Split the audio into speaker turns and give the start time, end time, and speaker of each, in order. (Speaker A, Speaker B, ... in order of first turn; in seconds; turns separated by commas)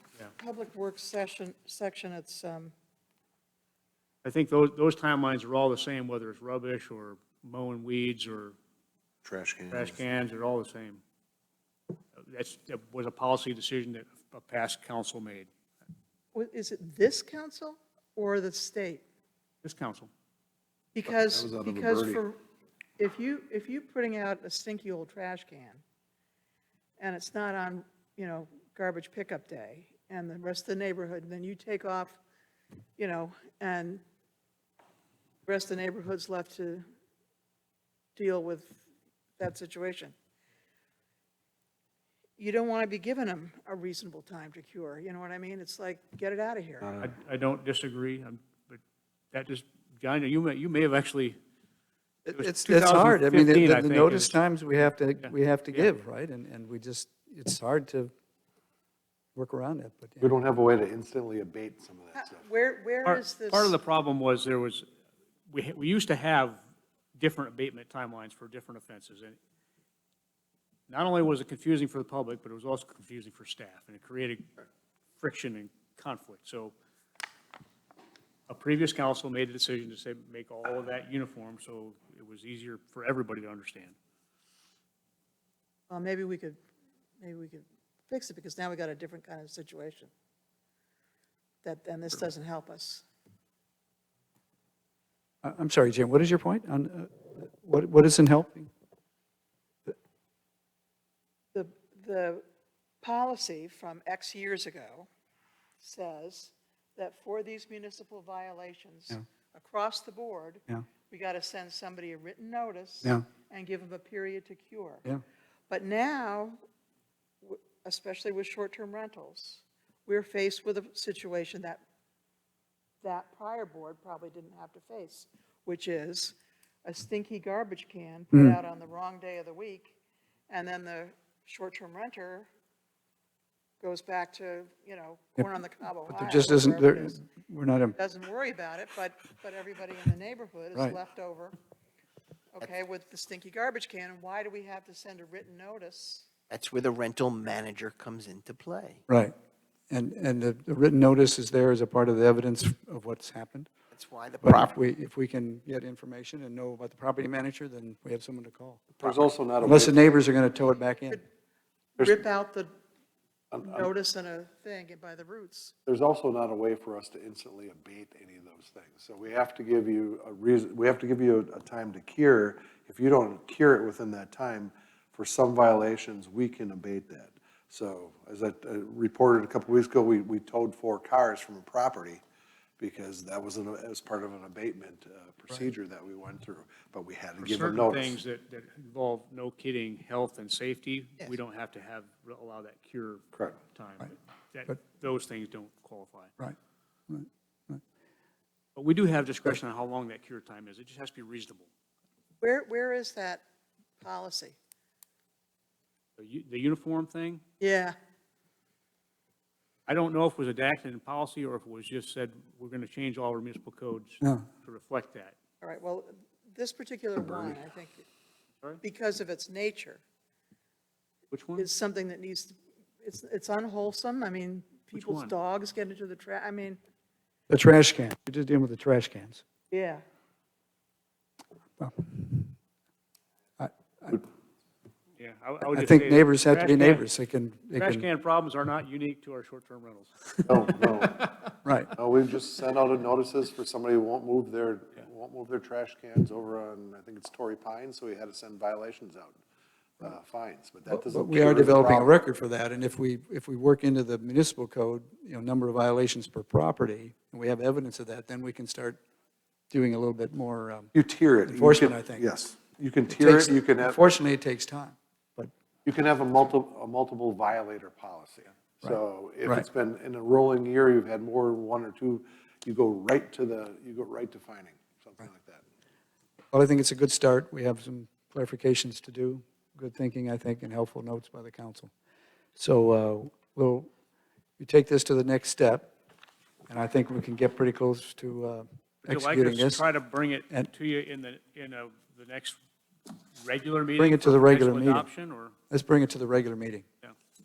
Speaker A: 0.4-2.7, Speaker B: 4.2-8.5, Speaker C: 9.2-10.0, Speaker B: 9.7-11.0, Speaker B: 12.2-15.5, Speaker A: 16.3-19.0, Speaker B: 19.6-20.1, Speaker A: 20.9-22.4, Speaker C: 21.1-22.2, Speaker A: 23.0-25.8, Speaker A: 27.0-32.2, Speaker A: 33.0-34.0, Speaker A: 35.5-36.8, Speaker A: 38.1-38.8, Speaker A: 39.4-40.1, Speaker A: 42.4-46.9, Speaker C: 46.8-47.1, Speaker B: 47.0-48.8, Speaker B: 49.3-51.4, Speaker D: 52.2-58.1, Speaker B: 52.3-54.4, Speaker B: 55.2-55.9, Speaker D: 59.3-60.3, Speaker C: 60.2-62.4, Speaker A: 62.1-63.8, Speaker B: 63.0-64.8, Speaker B: 65.5-66.6, Speaker B: 67.1-69.4, Speaker B: 70.9-74.5, Speaker B: 75.2-76.7, Speaker B: 78.5-83.9, Speaker A: 85.9-86.6, Speaker A: 87.2-90.1, Speaker A: 91.6-93.0, Speaker D: 95.4-98.7, Speaker A: 101.5-102.4, Speaker A: 103.0-105.1, Speaker A: 105.8-115.0, Speaker A: 115.7-116.6, Speaker A: 117.4-121.8, Speaker A: 123.0-129.9, Speaker A: 130.5-132.5, Speaker A: 133.8-137.2, Speaker D: 136.1-138.0, Speaker A: 137.9-141.5, Speaker A: 142.5-146.3, Speaker E: 146.5-149.0, Speaker D: 149.1-149.3, Speaker D: 149.9-153.7, Speaker E: 153.9-154.7, Speaker D: 154.4-161.2, Speaker C: 158.9-160.0, Speaker A: 162.0-162.7, Speaker C: 163.5-163.9, Speaker A: 163.6-165.7, Speaker C: 165.8-182.2, Speaker C: 182.8-188.2, Speaker B: 187.4-196.3, Speaker D: 197.1-197.8, Speaker B: 198.8-201.7, Speaker A: 202.4-203.4, Speaker A: 204.0-204.6, Speaker B: 206.2-207.4, Speaker A: 207.6-207.9, Speaker B: 209.9-215.3, Speaker D: 214.2-214.5, Speaker A: 215.6-218.1, Speaker C: 217.3-217.6, Speaker A: 218.8-220.0, Speaker B: 221.3-221.7, Speaker A: 221.6-226.8, Speaker B: 224.9-225.3, Speaker D: 227.5-229.4, Speaker A: 229.7-230.0, Speaker D: 231.8-232.5, Speaker D: 233.6-234.2, Speaker B: 235.2-237.0, Speaker D: 235.7-238.1, Speaker B: 237.8-240.4, Speaker C: 240.4-241.3, Speaker D: 241.6-241.9, Speaker C: 241.9-249.4, Speaker C: 250.0-252.1, Speaker D: 250.9-259.0, Speaker D: 259.7-260.9, Speaker C: 260.9-264.0, Speaker D: 261.4-262.3, Speaker D: 263.1-265.5, Speaker C: 265.8-275.6, Speaker D: 268.8-269.6, Speaker D: 276.5-281.9, Speaker D: 282.6-283.9, Speaker D: 284.6-285.9, Speaker D: 286.7-289.8, Speaker B: 289.0-292.6, Speaker B: 293.4-295.5, Speaker D: 294.0-295.1, Speaker D: 295.7-296.8